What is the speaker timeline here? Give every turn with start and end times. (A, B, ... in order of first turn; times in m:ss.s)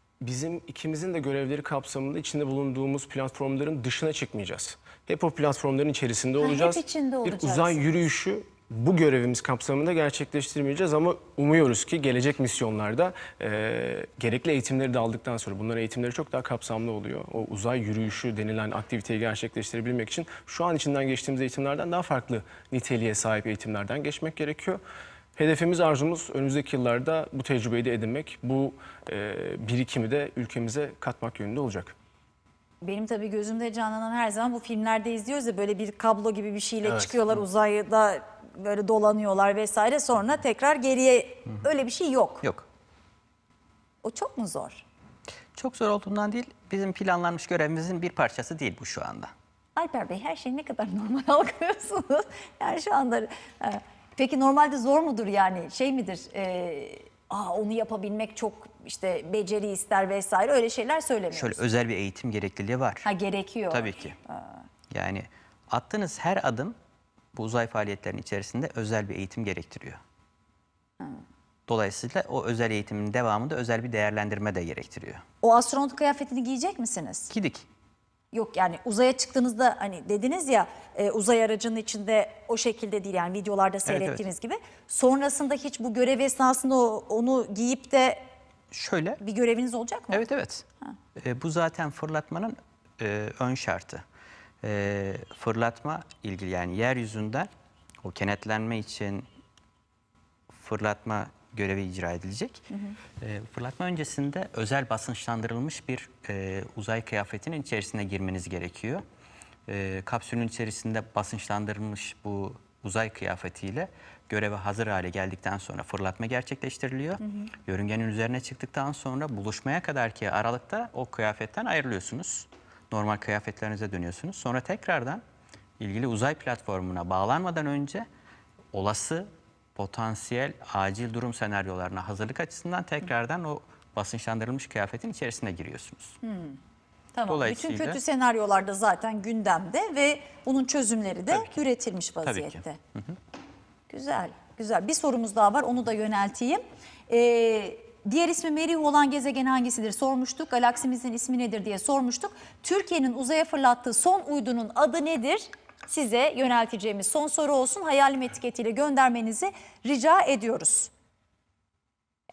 0:00.2-0:24.8 A
0:06.4-0:08.0 B
0:25.4-0:31.9 A
0:32.8-0:42.4 B
0:44.0-0:44.8 B
0:45.6-0:49.3 C
0:49.8-1:01.6 B
1:01.3-1:03.0 C
1:03.0-1:04.6 B
1:03.7-1:04.2 C
1:04.9-1:06.8 C
1:07.3-1:10.0 C
1:11.7-1:15.2 C
1:15.4-1:17.3 B
1:17.3-1:17.6 C
1:18.3-1:28.2 B
1:23.8-1:24.2 C
1:28.7-1:29.2 C
1:29.2-1:30.3 B
1:30.1-1:30.6 C
1:31.2-1:34.0 C
1:34.6-1:37.5 C
1:38.0-1:39.2 C
1:40.5-1:42.6 C
1:43.2-1:49.0 C
1:49.7-2:05.2 C
1:57.2-1:57.5 B
2:05.8-2:08.0 C
2:08.7-2:16.2 C
2:16.2-2:16.6 B
2:17.1-2:22.8 B
2:17.3-2:18.0 C
2:22.2-2:23.2 C
2:23.9-2:40.9 B